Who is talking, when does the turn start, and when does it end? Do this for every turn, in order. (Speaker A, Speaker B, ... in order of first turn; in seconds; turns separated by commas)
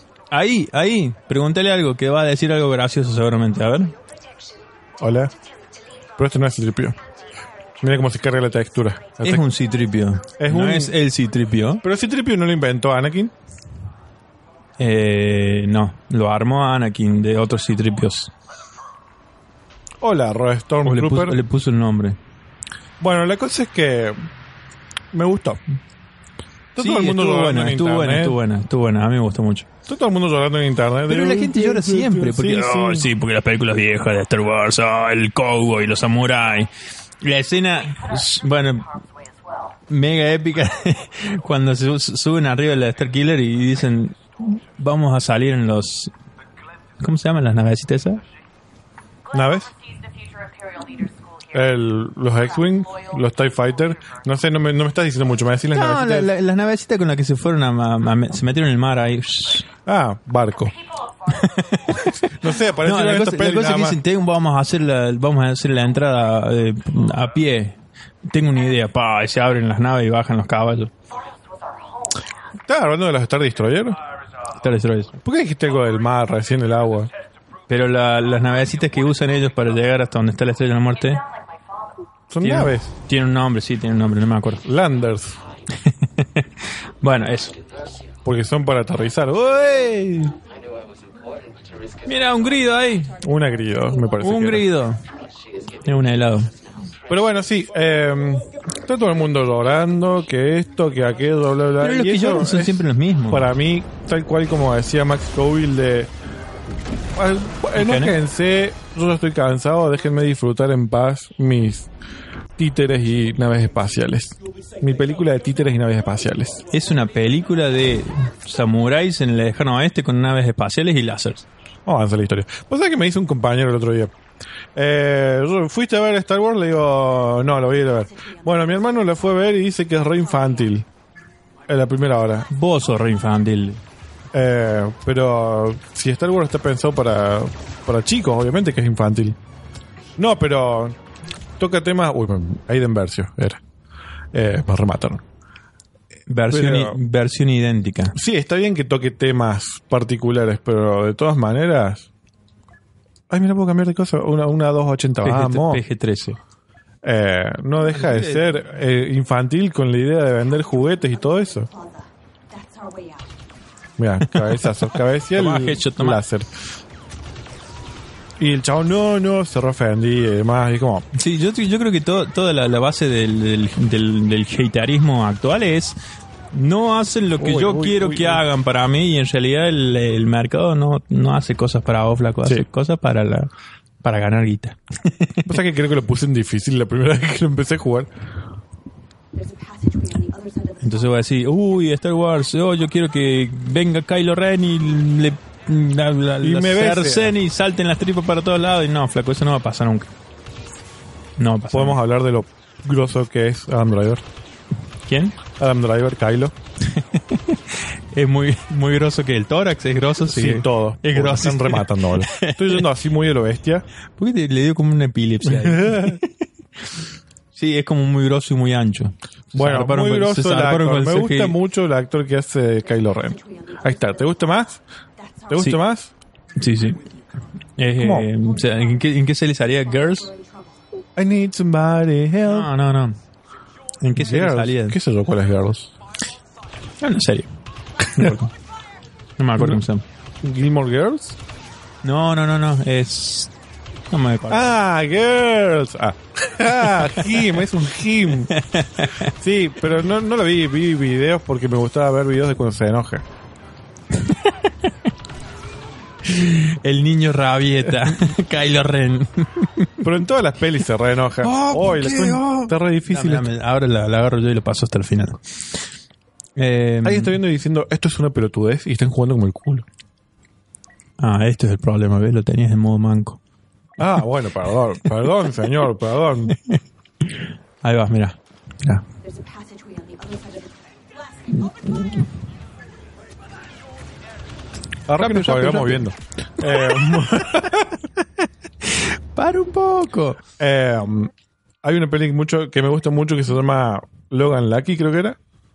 Speaker A: 0.3-4.0, Speaker B: 5.0-5.3, Speaker B: 6.2-7.0, Speaker B: 7.8-9.4, Speaker A: 9.2-11.8, Speaker B: 10.4-10.9, Speaker B: 11.8-13.3, Speaker A: 14.8-18.3, Speaker B: 20.0-21.4, Speaker A: 20.9-22.2, Speaker B: 23.0-24.3, Speaker B: 25.1-25.6, Speaker B: 26.8-28.4, Speaker A: 26.8-29.7, Speaker B: 29.9-33.1, Speaker A: 31.1-39.0, Speaker A: 39.9-46.1, Speaker A: 47.0-48.2, Speaker B: 49.3-49.7, Speaker C: 50.1-51.4, Speaker B: 51.5-56.3, Speaker A: 55.7-59.7, Speaker B: 59.9-60.8, Speaker A: 61.3-70.9, Speaker B: 62.0-64.0, Speaker B: 72.7-74.0, Speaker A: 74.5-75.2, Speaker B: 75.2-77.1, Speaker A: 77.7-81.2, Speaker B: 82.3-82.9, Speaker A: 82.4-84.6, Speaker B: 84.6-85.4, Speaker A: 85.8-87.6, Speaker B: 88.2-90.4, Speaker C: 90.8-91.5, Speaker A: 92.0-93.2, Speaker B: 93.2-94.7, Speaker A: 94.2-95.0, Speaker A: 95.8-96.5, Speaker B: 97.1-106.1, Speaker A: 101.8-103.5, Speaker B: 107.1-111.9, Speaker A: 107.8-108.2, Speaker B: 112.6-116.6, Speaker A: 116.7-121.5, Speaker B: 121.9-124.1, Speaker B: 124.8-130.8, Speaker C: 128.0-130.8, Speaker B: 131.7-132.5, Speaker A: 132.5-133.8, Speaker B: 134.3-139.4, Speaker B: 140.2-141.0, Speaker B: 141.6-143.6, Speaker B: 144.3-145.2, Speaker A: 146.3-148.2, Speaker B: 146.5-147.0, Speaker B: 148.1-152.1, Speaker B: 153.3-155.8, Speaker A: 155.2-156.4, Speaker B: 157.0-161.7, Speaker A: 157.8-158.6, Speaker C: 160.6-163.4, Speaker B: 164.0-166.5, Speaker A: 164.3-166.2, Speaker B: 168.4-171.1, Speaker A: 171.1-176.0, Speaker A: 176.5-183.5, Speaker B: 177.4-178.4, Speaker A: 184.0-185.6, Speaker B: 185.5-188.1, Speaker C: 189.3-191.3, Speaker A: 190.8-200.1, Speaker B: 196.4-197.4, Speaker A: 201.4-202.0, Speaker B: 201.7-204.2, Speaker A: 205.1-205.4, Speaker B: 205.6-206.5, Speaker A: 206.8-212.9, Speaker B: 210.2-213.9, Speaker A: 214.2-216.3, Speaker B: 215.4-216.2, Speaker A: 217.5-221.6, Speaker B: 219.5-224.8, Speaker C: 222.8-224.4, Speaker C: 225.2-225.8, Speaker B: 225.5-226.1, Speaker A: 226.6-227.1, Speaker A: 227.8-230.3, Speaker B: 228.0-228.3, Speaker C: 228.4-230.8, Speaker B: 231.2-232.7, Speaker A: 232.5-233.2, Speaker A: 234.0-235.0, Speaker B: 234.1-235.9, Speaker A: 237.0-238.5, Speaker A: 239.4-240.0, Speaker B: 240.4-241.4, Speaker A: 242.0-243.5, Speaker A: 244.1-244.8, Speaker B: 244.5-248.5, Speaker A: 247.0-247.4, Speaker A: 248.5-249.3, Speaker B: 249.2-253.2, Speaker A: 254.1-254.9, Speaker A: 256.2-260.0, Speaker B: 260.0-263.5, Speaker A: 261.4-265.6, Speaker A: 266.6-267.4, Speaker B: 267.0-269.9, Speaker A: 271.2-273.4, Speaker B: 274.0-276.6, Speaker A: 276.6-279.0, Speaker C: 279.2-281.9, Speaker A: 281.5-282.2, Speaker B: 285.1-288.0, Speaker A: 285.1-286.1, Speaker A: 286.6-287.6, Speaker A: 288.8-290.4, Speaker B: 290.6-291.3, Speaker B: 291.8-295.4